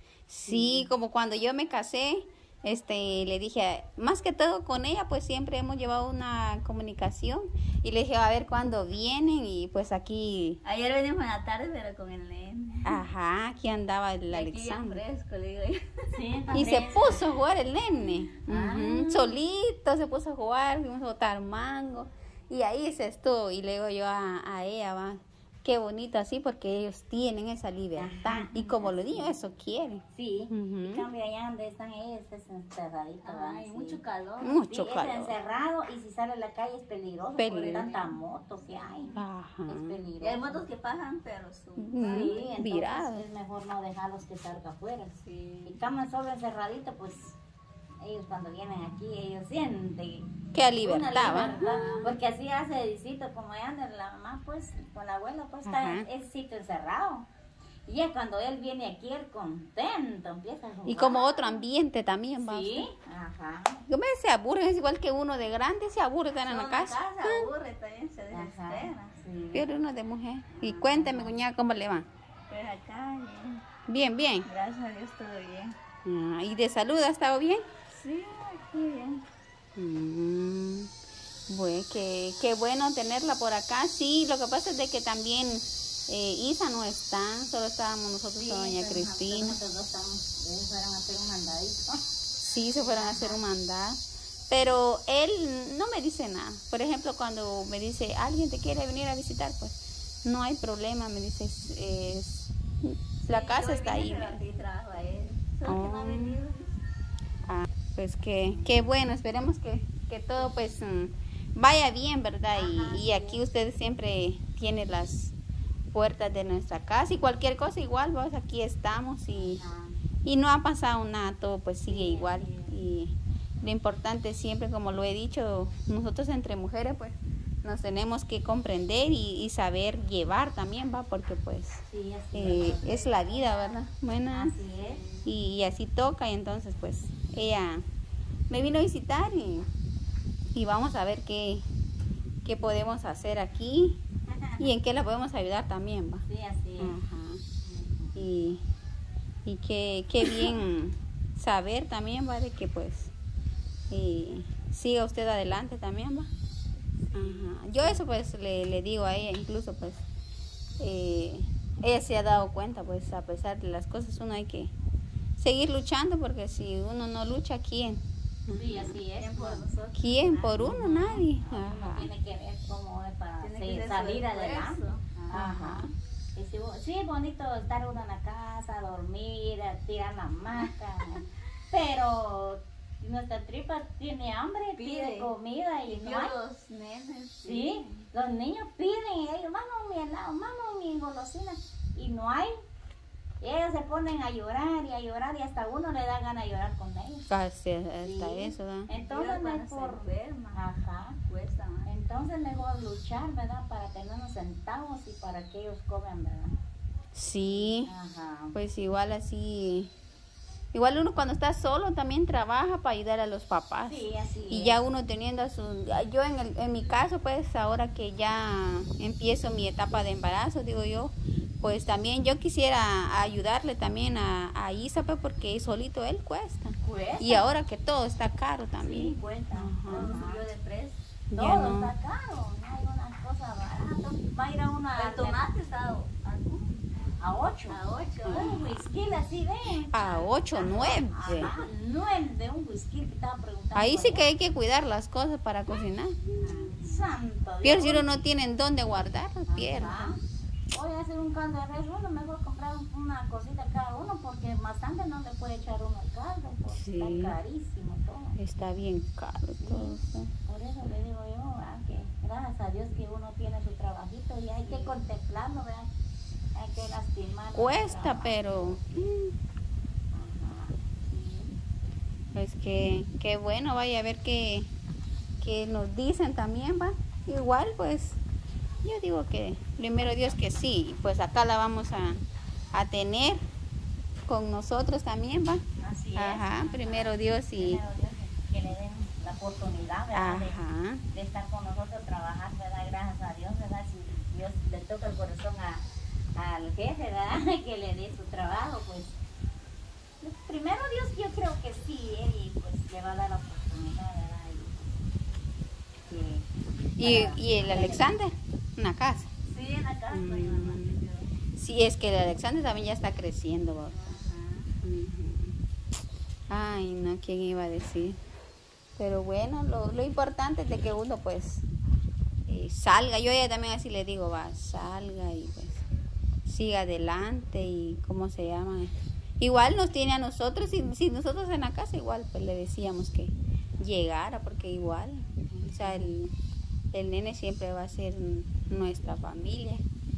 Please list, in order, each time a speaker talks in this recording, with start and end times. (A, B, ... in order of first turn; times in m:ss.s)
0:00.3-0:10.6 A
0:00.5-0:00.9 B
0:10.6-0:13.0 C
0:12.8-0:15.0 A
0:14.3-0:16.4 C
0:16.1-0:17.2 B
0:16.5-0:31.0 A
0:18.5-0:19.4 B
0:28.0-0:29.4 B
0:30.1-0:34.0 B
0:33.2-0:34.6 C
0:34.4-0:35.4 A
0:34.7-0:39.2 B
0:37.4-0:37.9 A
0:37.4-0:39.2 C
0:39.2-0:39.9 A
0:39.7-0:40.6 B
0:40.2-0:42.6 C
0:41.8-0:43.2 A
0:42.0-0:47.4 B
0:45.2-0:45.8 C
0:48.0-0:50.3 B
0:50.5-0:51.9 A
0:50.8-0:57.3 B
0:51.2-0:52.2 C
0:55.6-0:56.1 A
0:57.9-1:01.6 B
1:00.9-1:02.9 A
1:02.4-1:03.8 B
1:03.9-1:07.5 A
1:06.4-1:09.2 C
1:08.3-1:09.7 B
1:09.5-1:12.1 A
1:10.6-1:11.4 B
1:12.5-1:13.6 C
1:13.9-1:14.5 A
1:14.4-1:15.8 C
1:16.0-1:17.6 A
1:17.9-1:19.2 C
1:19.8-1:20.9 A
1:21.5-1:29.6 A
1:28.4-1:32.1 B
1:32.4-1:44.4 A
1:32.8-1:33.4 B
1:43.2-1:46.8 C
1:45.6-1:46.4 A
1:47.5-1:55.4 A
1:48.4-1:48.9 B
1:52.5-1:53.4 B
1:55.9-1:59.6 A
1:59.3-2:00.0 B
2:00.2-2:14.5 A
2:01.9-2:02.7 B
2:11.9-2:15.0 B
2:15.2-2:17.8 A
2:18.5-2:19.7 A
2:20.5-2:21.6 A
2:22.4-2:24.0 A
2:24.3-2:24.7 B
2:24.6-2:26.2 A
2:26.3-2:27.0 B
2:26.8-2:27.4 A
2:27.6-2:28.2 B
2:28.2-2:28.6 A
2:29.5-2:33.1 A
2:30.3-2:30.5 B
2:33.9-2:36.3 A
2:37.1-2:38.0 B
2:37.1-2:40.0 A
2:40.8-2:44.7 A
2:45.4-2:49.0 A
2:48.5-3:06.4 B
2:49.2-2:50.0 C
2:49.9-2:52.1 A
2:53.4-2:55.1 C
2:55.3-2:55.9 A
3:04.8-3:05.3 C
3:05.9-3:08.0 C
3:07.4-3:12.6 B
3:13.4-3:17.3 B
3:17.3-3:18.9 A
3:18.0-3:21.2 B
3:19.0-3:20.6 C
3:21.3-3:21.9 C
3:21.8-3:26.6 B
3:27.1-3:27.9 A
3:27.5-3:28.6 B
3:28.5-3:29.9 A
3:30.7-3:50.2 A
3:33.9-3:34.8 B
3:46.8-3:47.5 B
3:48.8-3:50.5 B
3:49.9-3:51.0 C
3:51.3-3:51.9 A
3:51.4-3:55.4 B
3:55.0-3:56.8 C
3:57.2-4:04.3 B
3:57.7-3:58.6 C
3:58.3-3:58.7 A
3:59.9-4:01.5 A
4:01.3-4:01.7 C
4:03.8-4:06.6 A
4:06.4-4:08.1 B
4:06.4-4:07.1 C
4:07.6-4:10.2 A
4:09.5-4:10.2 B
4:10.7-4:18.4 B
4:16.7-4:17.4 A
4:18.4-4:20.3 A
4:19.6-4:25.9 B
4:26.6-4:28.8 B
4:27.5-4:29.3 A
4:30.1-4:31.5 B
4:32.3-4:34.7 A
4:35.4-4:38.2 A
4:38.8-4:42.2 A
4:42.7-4:43.4 A
4:44.3-4:45.6 A
4:45.8-4:50.6 B
4:46.2-4:47.8 A
4:50.1-4:51.0 A
4:51.1-4:55.8 B
4:56.4-4:59.2 B
5:00.2-5:04.8 B
5:06.1-5:06.5 B
5:07.0-5:09.3 A
5:07.0-5:08.1 B
5:09.5-5:11.0 B
5:10.1-5:11.0 A
5:11.6-5:14.0 A
5:13.9-5:14.6 B
5:14.8-5:15.6 A
5:16.5-5:18.2 A
5:19.0-5:21.6 A
5:22.5-5:25.8 A
5:26.5-5:36.3 A
5:35.8-5:36.1 B
5:36.9-5:39.8 A